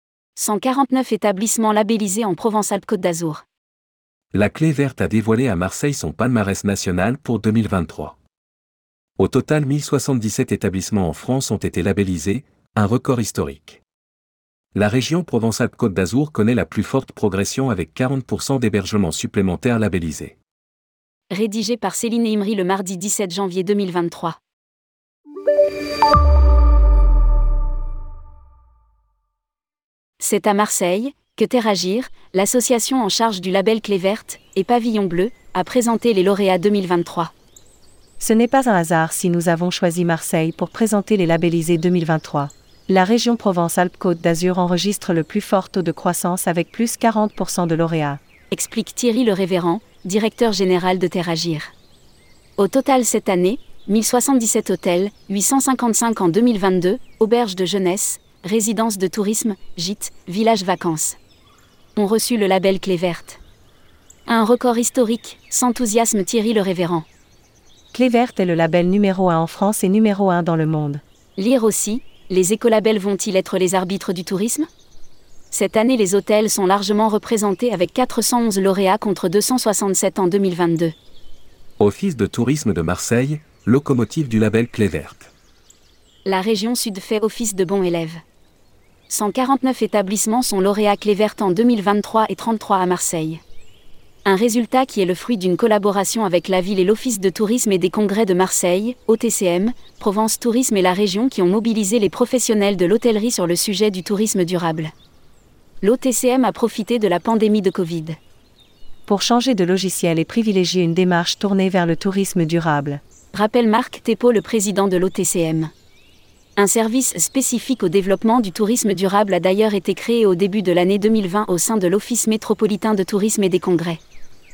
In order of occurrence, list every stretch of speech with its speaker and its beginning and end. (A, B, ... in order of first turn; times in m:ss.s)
0:00.4-0:03.4 A
0:04.3-0:08.2 B
0:09.2-0:13.8 B
0:14.8-0:20.4 B
0:21.3-0:24.4 A
0:30.2-0:37.3 A
0:38.2-0:48.2 C
0:48.5-0:51.7 A
0:52.6-1:01.2 A
1:02.0-1:03.4 A
1:04.3-1:07.1 A
1:07.9-1:11.0 C
1:11.4-1:14.7 A
1:15.5-1:20.9 A
1:21.8-1:25.3 B
1:26.2-1:28.2 A
1:29.1-1:33.4 A
1:34.2-1:44.9 A
1:45.8-1:48.2 A
1:49.1-1:53.0 C
1:53.3-1:55.7 A
1:56.6-2:04.0 A